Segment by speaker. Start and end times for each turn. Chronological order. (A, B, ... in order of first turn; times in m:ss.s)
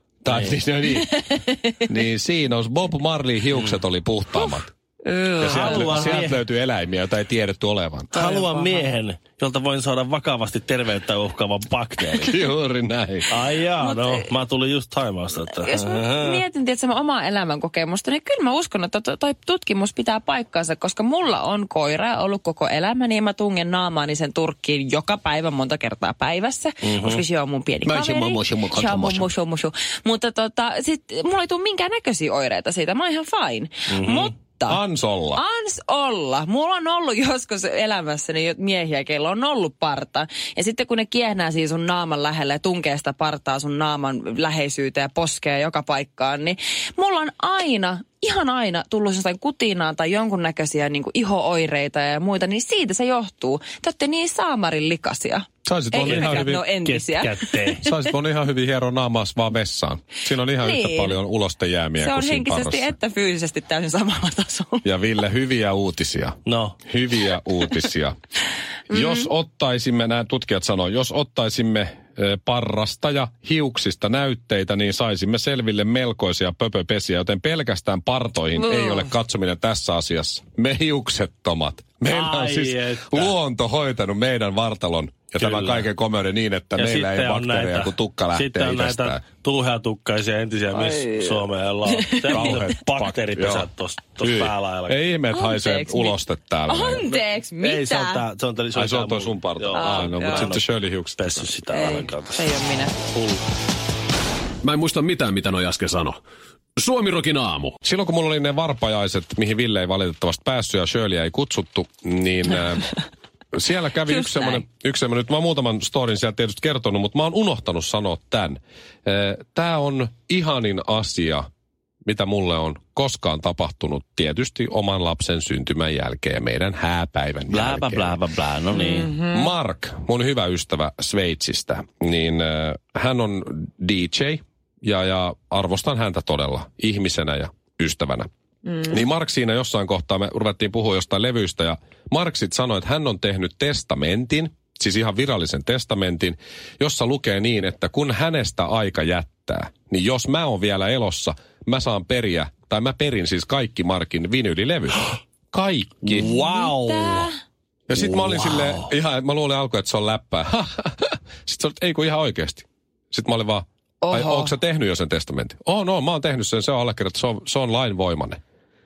0:00.2-0:01.2 A
0:00.3-0:00.6 B
0:01.0-0:01.8 C
0:01.9-0:04.7 A
0:03.5-0:03.8 B
0:05.1-0:05.8 C
0:05.2-0:06.4 B
0:05.4-0:08.1 A
0:08.1-0:12.5 B
0:08.1-0:08.9 C
0:12.1-0:13.3 A
0:13.3-0:16.4 B
0:13.8-0:14.2 C
0:15.6-0:34.8 C
0:26.8-0:27.2 B
0:27.8-0:29.2 A
0:33.9-0:34.3 B
0:34.6-0:35.4 A
0:35.3-0:58.1 C
0:55.6-0:56.6 A
0:56.0-0:57.8 B
0:57.8-1:02.9 A
1:00.6-1:01.2 C
1:02.0-1:04.8 C
1:04.8-1:08.1 A
1:06.5-1:06.8 B
1:08.9-1:29.2 A
1:08.9-1:09.3 C
1:18.6-1:19.1 C
1:22.1-1:23.3 B
1:25.4-1:25.9 B
1:26.8-1:35.0 B
1:30.7-1:32.6 C
1:32.3-1:33.7 A
1:34.2-1:37.0 A
1:35.3-1:38.2 C
1:37.1-1:40.6 B
1:38.7-1:41.5 A
1:39.7-1:40.6 C
1:41.1-1:42.4 B
1:41.7-1:43.0 C
1:43.1-1:43.4 B
1:44.6-1:46.2 D
1:46.8-1:47.7 D
1:47.8-1:52.9 A
1:53.5-2:01.5 A
1:54.1-1:54.6 C
2:02.0-2:08.2 A
2:07.5-2:09.1 B
2:08.7-2:09.5 C
2:09.3-2:18.3 A
2:18.7-2:19.0 C
2:18.9-2:36.3 A
2:36.0-2:37.3 B
2:36.2-2:37.3 C
2:37.9-2:48.4 A
2:37.9-2:38.9 B
2:44.0-2:44.5 C